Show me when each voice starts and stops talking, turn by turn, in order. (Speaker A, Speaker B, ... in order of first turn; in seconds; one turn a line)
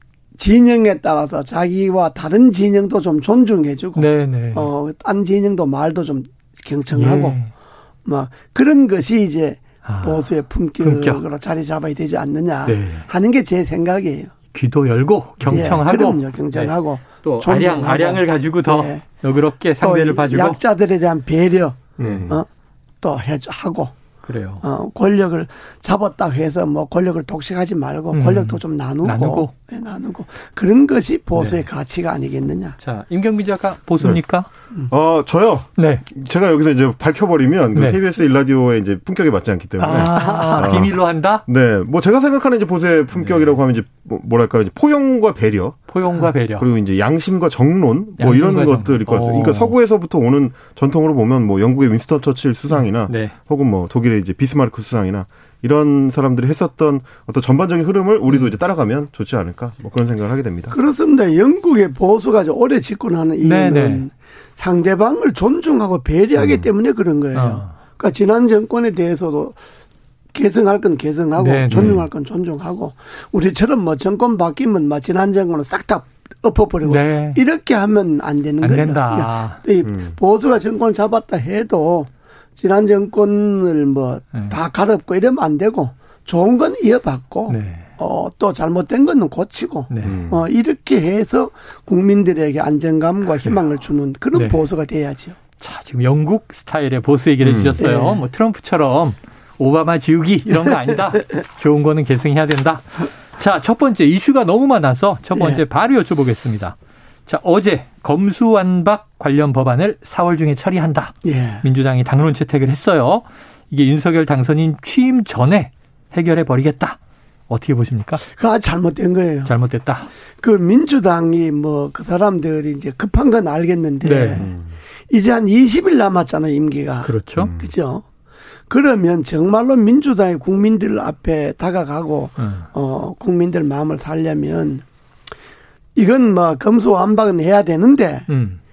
Speaker A: 0.4-7.4
Speaker B: 4.0-4.7
Speaker B: 6.9-7.5
Speaker A: 8.1-14.3
Speaker B: 9.8-11.2
Speaker B: 12.7-13.1
Speaker B: 14.5-20.6
Speaker C: 15.4-15.7
Speaker A: 15.5-19.1
Speaker A: 19.8-22.5
Speaker B: 22.0-22.4
Speaker C: 22.0-22.3
Speaker A: 23.0-23.9
Speaker B: 24.2-24.6
Speaker A: 24.6-32.8
Speaker B: 28.1-29.5
Speaker B: 31.4-31.6
Speaker B: 32.8-34.5
Speaker C: 34.9-40.9
Speaker B: 35.8-36.0
Speaker B: 37.8-38.0
Speaker B: 39.8-41.4
Speaker A: 40.1-40.8
Speaker C: 41.5-60.8
Speaker B: 43.2-43.5
Speaker B: 45.9-46.7
Speaker B: 48.2-49.8
Speaker B: 52.7-53.4
Speaker A: 60.7-69.6
Speaker B: 63.4-64.0
Speaker C: 66.4-66.7
Speaker B: 67.3-67.7
Speaker A: 70.3-95.4
Speaker B: 71.4-72.0
Speaker C: 71.7-72.0
Speaker B: 76.8-77.4
Speaker B: 78.6-79.6
Speaker C: 79.8-80.2
Speaker B: 87.5-87.9
Speaker B: 89.9-90.2
Speaker C: 90.0-90.4
Speaker B: 94.3-94.6
Speaker B: 95.6-117.0
Speaker C: 97.4-97.7
Speaker A: 97.8-98.2
Speaker A: 105.3-105.6
Speaker A: 111.2-111.6
Speaker B: 117.5-118.2
Speaker A: 118.3-119.5
Speaker B: 119.5-120.1
Speaker A: 120.4-124.5
Speaker B: 124.0-124.5
Speaker C: 124.4-124.7
Speaker A: 125.1-128.0
Speaker B: 127.0-127.5
Speaker C: 127.4-127.7
Speaker A: 128.7-134.8
Speaker B: 132.4-132.7
Speaker A: 136.0-138.3
Speaker B: 138.3-138.6